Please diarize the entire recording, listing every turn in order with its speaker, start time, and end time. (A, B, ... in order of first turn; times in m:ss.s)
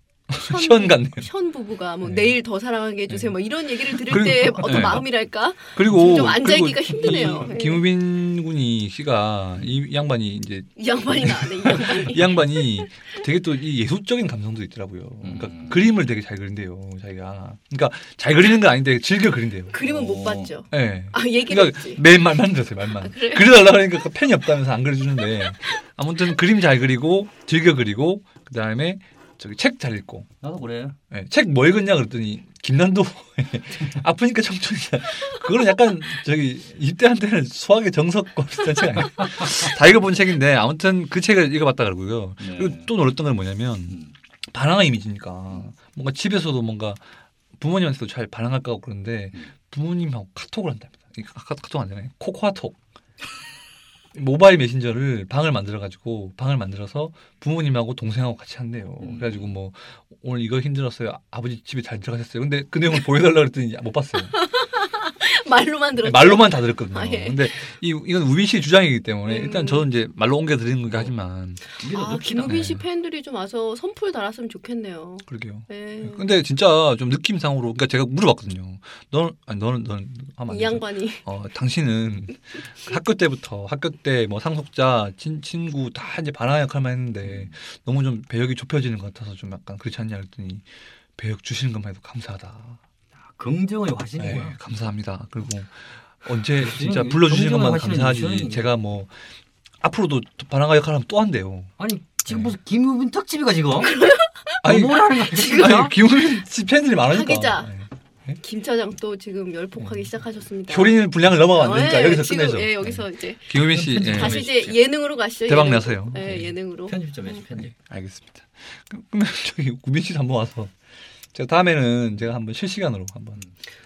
0:00.3-0:01.3 A
0:00.4-0:07.9 B
0:02.0-0:02.4 A
0:03.1-0:03.3 A
0:03.8-0:05.1 A
0:05.7-0:19.8 A
0:07.0-0:07.5 C
0:10.8-0:12.9 B
0:15.2-0:15.9 C
0:19.7-0:22.0 B
0:19.8-0:20.5 C
0:20.7-0:30.3 A
0:23.0-0:23.7 B
0:30.4-0:31.0 C
0:31.1-0:44.0 A
0:39.2-0:39.5 C
0:42.4-0:42.9 C
0:44.5-0:52.8 A
0:54.1-1:04.4 A
0:59.0-0:59.5 C
1:04.3-1:07.7 B
1:06.0-1:11.6 A
1:09.2-1:09.8 B
1:11.8-1:12.7 C
1:11.8-1:16.3 B
1:12.4-1:12.8 A
1:15.3-1:32.8 A
1:20.5-1:21.2 B
1:27.2-1:27.5 C
1:33.2-1:34.6 C
1:34.2-1:39.2 A
1:36.6-1:38.7 C
1:39.8-1:41.7 A
1:41.8-1:43.9 C
1:42.3-1:42.5 A
1:43.8-1:44.6 B
1:44.6-1:45.9 C
1:44.6-1:48.4 A
1:45.3-1:45.8 B
1:47.1-1:47.7 B
1:48.4-1:57.4 B
1:49.8-1:50.1 A
1:50.7-1:54.7 A
1:53.7-1:54.8 C
1:55.4-1:56.5 A
1:56.9-1:57.7 C
1:57.6-2:00.7 A
2:01.3-2:03.4 A